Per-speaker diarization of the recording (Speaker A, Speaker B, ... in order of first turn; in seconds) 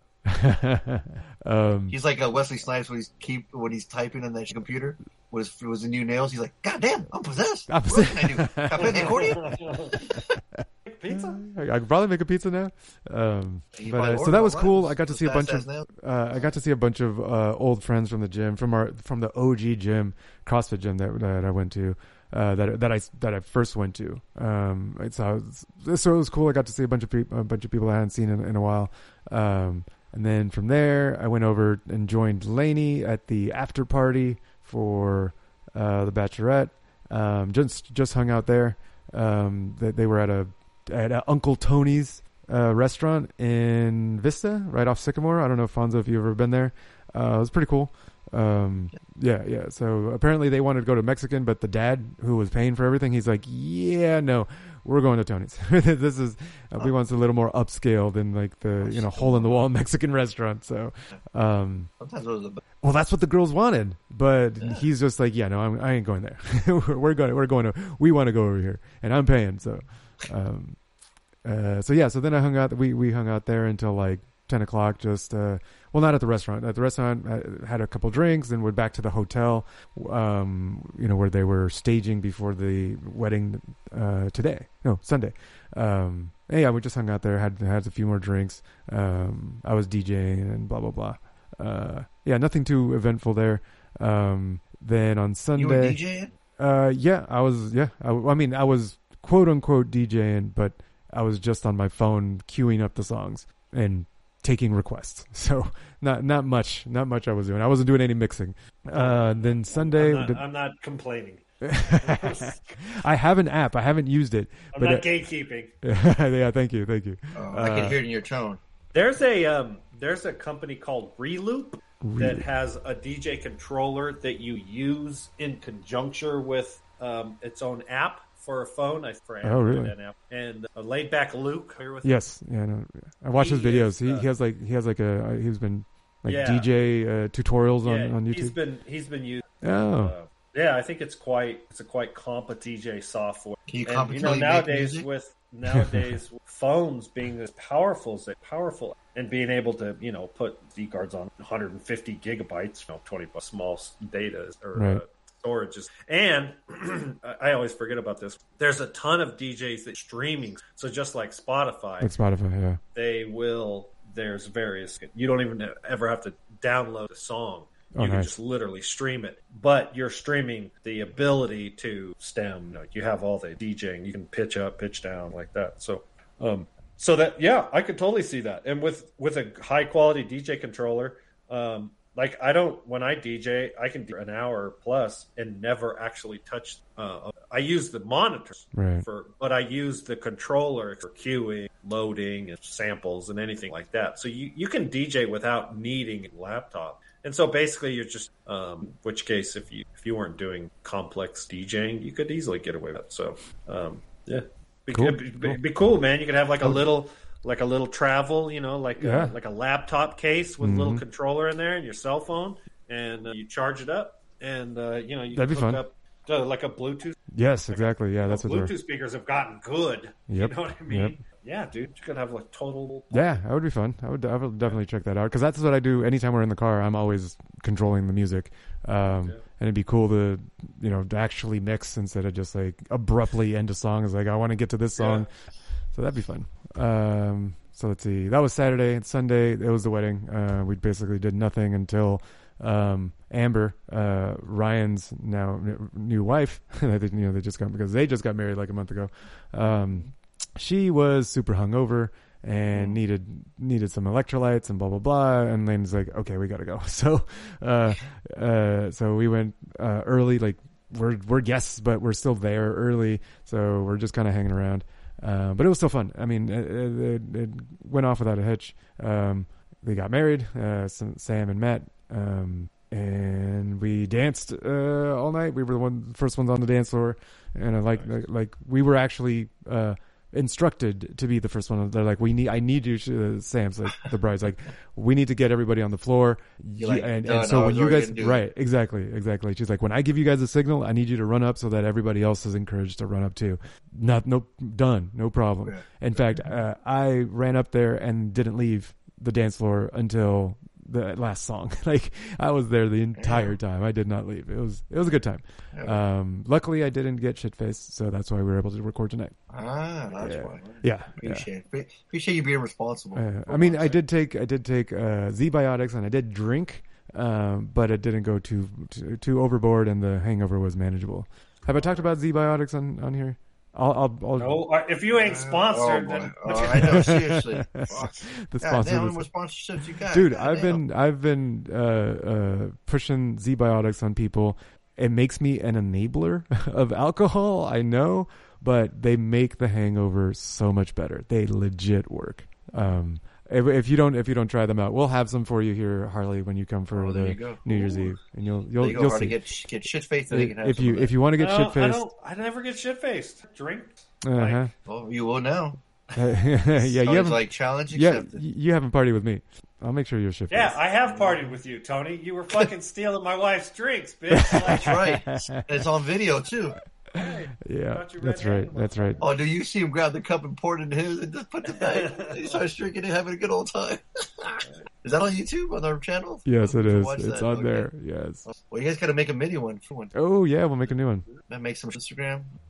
Speaker A: 0.2-2.0, 7.7-9.4, 10.1-61.9, 62.8-70.8, 71.4-96.0, 96.6-110.4, 111.6-115.1, 115.8-118.0, 122.0-122.4, 129.4-129.9, 132.0-138.6, 139.6-140.1, 145.7-146.1, 154.7-155.0, 162.0-162.8, 167.9-168.3, 188.7-189.1, 204.9-205.6, 209.0-209.3, 210.6-211.0, 215.3-215.8, 217.3-218.7, 220.3-221.2, 223.1-235.3, 235.9-309.4, 310.2-311.4, 313.1-324.6, 326.5-329.3, 330.1-349.4, 350.3-352.0, 354.2-354.7, 356.1-360.8, 364.3-365.9, 367.1-369.2, 376.4-378.4, 380.1-381.2
Speaker B: 1.9-10.2, 13.7-15.9, 58.8-59.6, 62.0-62.6, 95.5-96.3, 117.3-118.6, 143.7-145.1, 252.7-253.0, 286.8-288.4, 303.2-303.5, 305.7-306.0, 309.5-314.0, 325.2-330.8, 346.9-348.1, 348.8-351.1, 354.9-355.8, 356.8-358.4, 361.0-361.4, 364.6-366.8, 369.2-377.9, 378.4-380.1, 381.5-382.5
Speaker C: 8.9-10.0, 10.8-11.4, 108.9-112.8, 114.7-115.7, 118.9-132.1, 133.3-134.3, 136.2-136.7, 137.8-162.2, 162.9-217.2, 217.7-223.4, 229.1-229.4, 235.0-235.3, 324.4-327.2, 351.4-354.7, 360.5-364.9, 367.1-369.3, 371.7-372.6